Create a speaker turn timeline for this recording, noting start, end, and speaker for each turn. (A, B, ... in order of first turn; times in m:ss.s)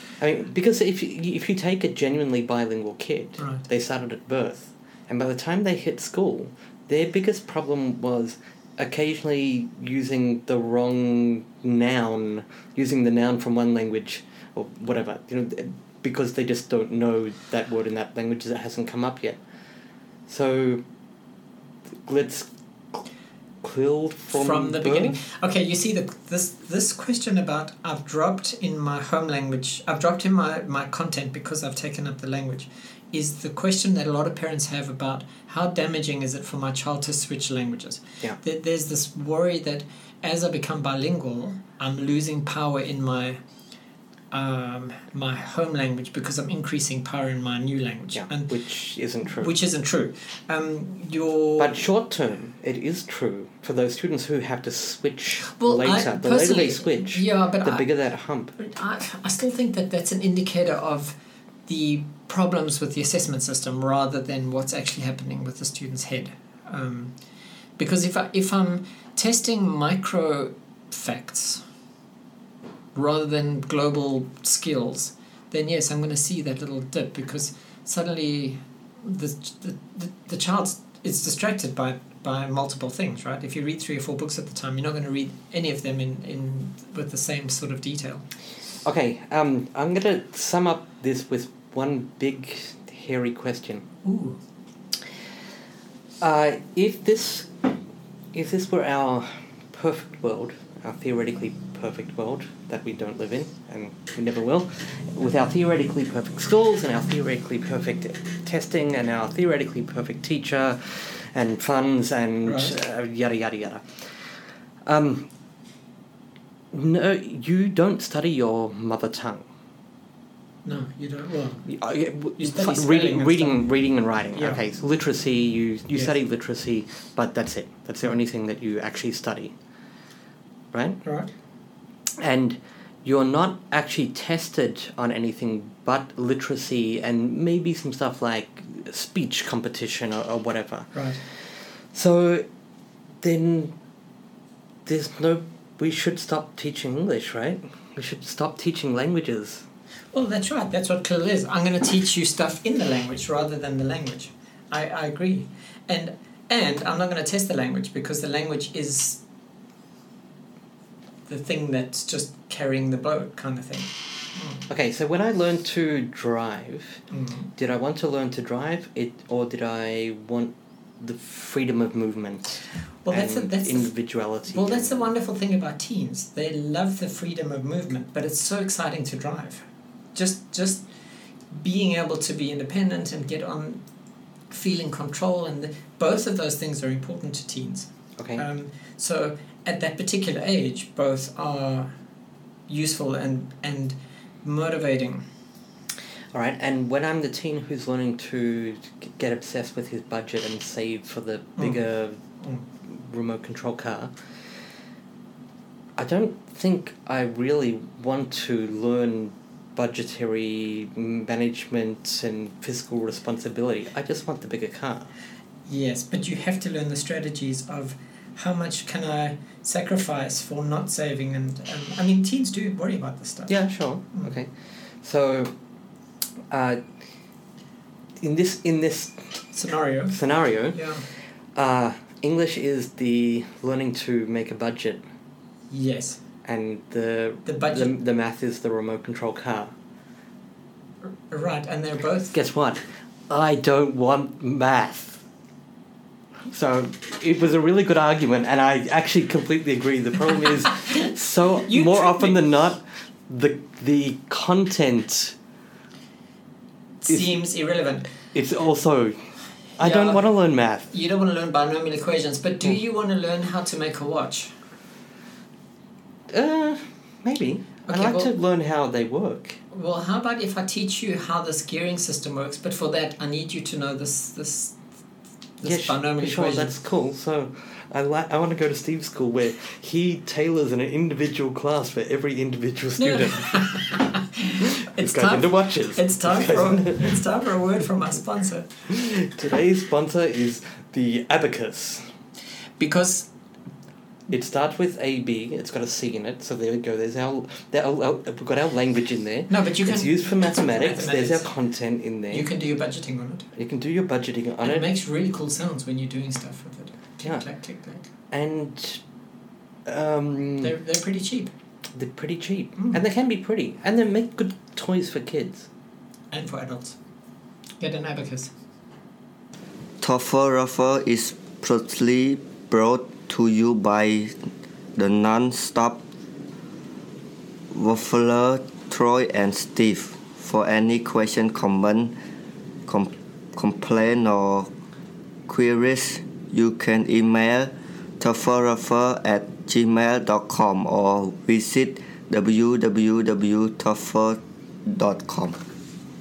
0:00.2-0:19.4 A
0:03.4-0:03.6 B
0:20.3-0:20.8 A
0:22.0-0:23.0 A
0:23.6-0:25.2 A
0:24.3-0:43.4 B
0:44.3-0:48.5 B
0:48.1-0:49.5 A
0:49.4-0:51.7 B
0:51.6-0:58.5 A
0:55.4-0:57.8 B
0:58.6-1:01.1 B
1:01.7-1:07.1 B
1:07.8-1:11.6 B
1:12.9-1:28.2 B
1:28.8-1:33.8 A
1:34.0-1:34.4 B
1:36.2-1:37.5 A
1:38.3-1:53.9 A
1:52.4-1:52.8 B
1:54.8-1:55.3 A
1:56.7-1:59.4 A
2:00.6-2:01.7 B
2:01.6-2:09.5 A
2:02.4-2:03.7 B
2:04.3-2:04.6 B
2:10.7-2:11.0 A
2:11.0-2:11.3 B
2:12.2-2:22.4 A
2:20.9-2:21.2 B
2:23.2-2:23.7 A
2:24.8-2:29.6 A
2:30.1-2:39.2 B
2:41.3-2:44.6 B
2:44.7-2:47.0 A
2:47.1-2:47.5 B
2:47.6-2:55.0 A
2:53.0-2:53.9 B
2:54.5-2:59.6 B
3:00.1-3:00.8 B
3:01.5-3:03.8 B
3:04.5-3:11.9 B
3:08.2-3:08.4 A
3:12.7-3:15.2 B
3:16.3-3:22.2 A
3:22.8-3:24.1 A
3:26.0-3:35.1 A
3:35.7-3:43.6 B
3:43.5-3:44.5 A
3:45.0-3:45.5 A
3:46.5-3:46.8 A
3:48.2-3:49.4 A
3:49.5-3:50.2 B
3:50.1-3:50.8 A
3:50.7-3:51.0 B
3:51.5-3:55.0 A
3:55.7-3:56.2 B
3:56.4-3:59.7 A
3:57.4-3:57.9 B
4:01.0-4:02.3 B
4:02.3-4:05.2 A
4:06.5-4:15.4 A
4:11.6-4:12.4 B
4:17.0-4:18.1 B
4:17.1-4:17.4 A
4:18.3-4:19.2 A
4:19.8-4:20.9 A
4:19.8-4:20.2 B
4:20.9-4:24.5 B
4:26.3-4:29.6 A
4:27.9-4:28.3 B
4:29.7-4:34.8 B
4:35.6-4:36.7 B
4:35.6-4:43.7 A
4:43.0-4:48.7 B
4:44.8-4:47.1 A
4:48.9-4:52.1 A
4:52.8-4:53.3 B
4:54.3-5:02.5 A
4:59.5-5:01.5 B
5:02.3-5:03.4 B
5:03.5-5:04.9 A
5:04.6-5:08.0 B
5:08.3-5:09.0 A
5:09.8-5:10.8 A
5:10.6-5:11.5 B
5:11.9-5:15.7 A
5:16.3-5:17.0 B
5:17.8-5:18.5 B
5:20.0-5:24.4 C
5:25.0-5:26.0 C
5:27.7-5:32.2 C
5:32.9-5:34.7 C
5:35.5-5:45.6 C